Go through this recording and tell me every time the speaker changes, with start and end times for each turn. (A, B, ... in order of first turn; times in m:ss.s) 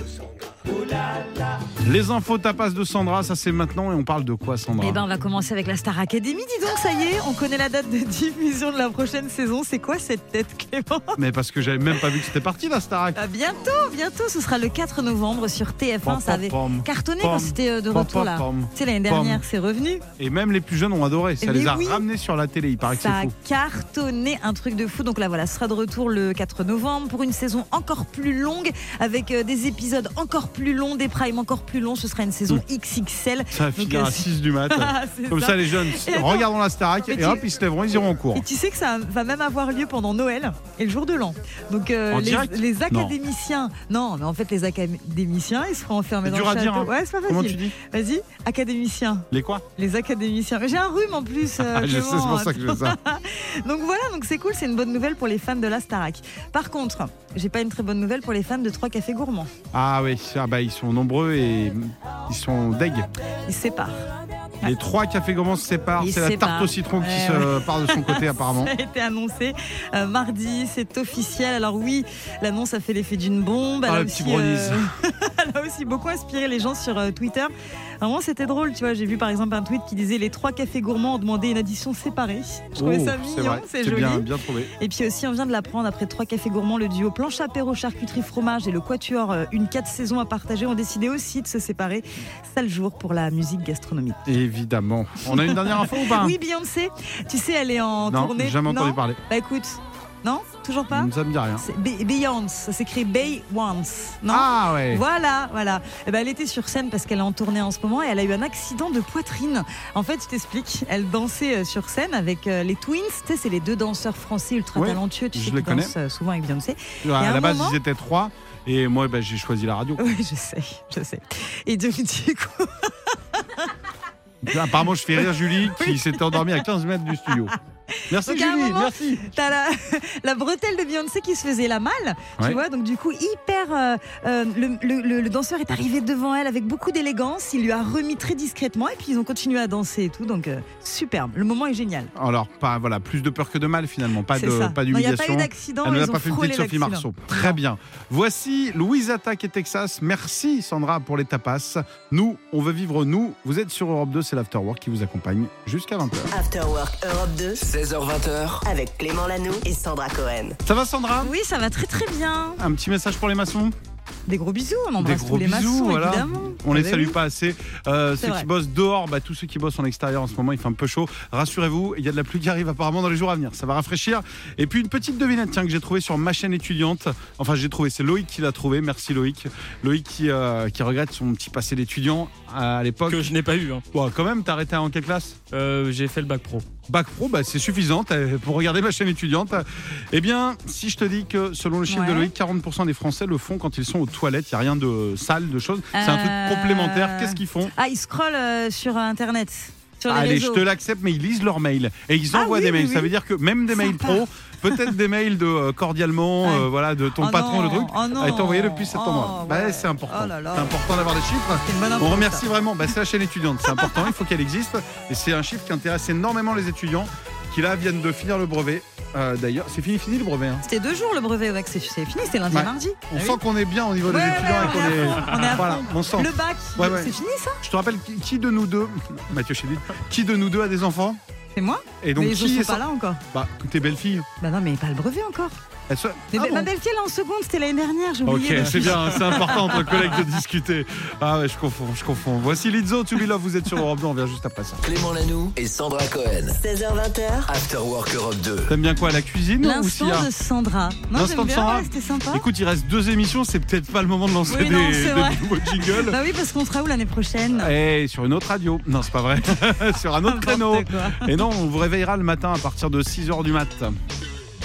0:01.8-0:05.0 A
0:04.8-0:11.2 B
0:11.2-0:13.2 A
0:13.1-0:20.0 B
0:16.0-0:19.4 A
0:20.2-0:23.3 A
0:21.4-0:22.0 B
0:22.9-0:36.5 B
0:33.5-0:38.4 A
0:37.1-0:37.4 B
0:38.3-0:59.5 B
0:42.1-0:43.2 A
0:46.2-0:47.7 A
0:49.3-0:49.6 A
0:51.6-0:53.0 A
0:59.7-1:03.1 A
1:03.4-1:04.0 B
1:04.6-1:08.7 A
1:06.0-1:34.2 B
1:13.8-1:14.9 A
1:22.8-1:24.7 A
1:34.2-1:36.4 A
1:35.2-1:57.8 B
1:38.1-1:39.2 A
1:40.9-1:41.6 A
1:44.3-1:45.0 A
1:54.7-1:55.9 A
1:57.0-2:00.1 A
2:00.0-2:03.7 B
2:04.4-2:07.5 A
2:05.1-2:06.6 B
2:08.1-2:09.2 A
2:08.2-2:22.1 B
2:22.1-2:36.3 A
2:24.3-2:27.6 B
2:36.3-2:37.6 C
2:37.6-2:38.7 D
2:38.6-2:40.6 C
2:40.6-2:41.3 A
2:41.2-2:42.6 B
2:42.6-2:43.7 A
2:44.2-2:47.2 B
2:45.0-3:03.3 A
2:48.2-2:48.5 B
3:03.1-3:03.8 E
3:03.9-3:05.4 A
3:05.5-3:06.6 E
3:06.9-3:17.7 A
3:11.9-3:12.3 B
3:15.9-3:20.6 B
3:20.1-3:40.6 A
3:22.3-3:23.1 B
3:23.7-3:24.8 B
3:26.4-3:30.8 B
3:31.6-3:32.5 B
3:33.7-3:34.0 B
3:40.6-3:43.4 B
3:42.5-3:51.2 A
3:44.0-3:47.6 B
3:51.5-3:53.2 B
3:52.0-3:54.2 A
3:54.4-3:55.6 B
3:55.9-3:56.7 A
3:56.3-4:00.2 B
3:58.2-4:04.8 A
4:04.8-4:06.6 D
4:06.5-4:07.5 C
4:07.4-4:08.7 D
4:08.7-4:10.3 A
4:09.6-4:12.4 B
4:11.1-4:16.2 A
4:14.5-4:17.7 B
4:17.5-4:23.9 A
4:19.4-4:21.4 B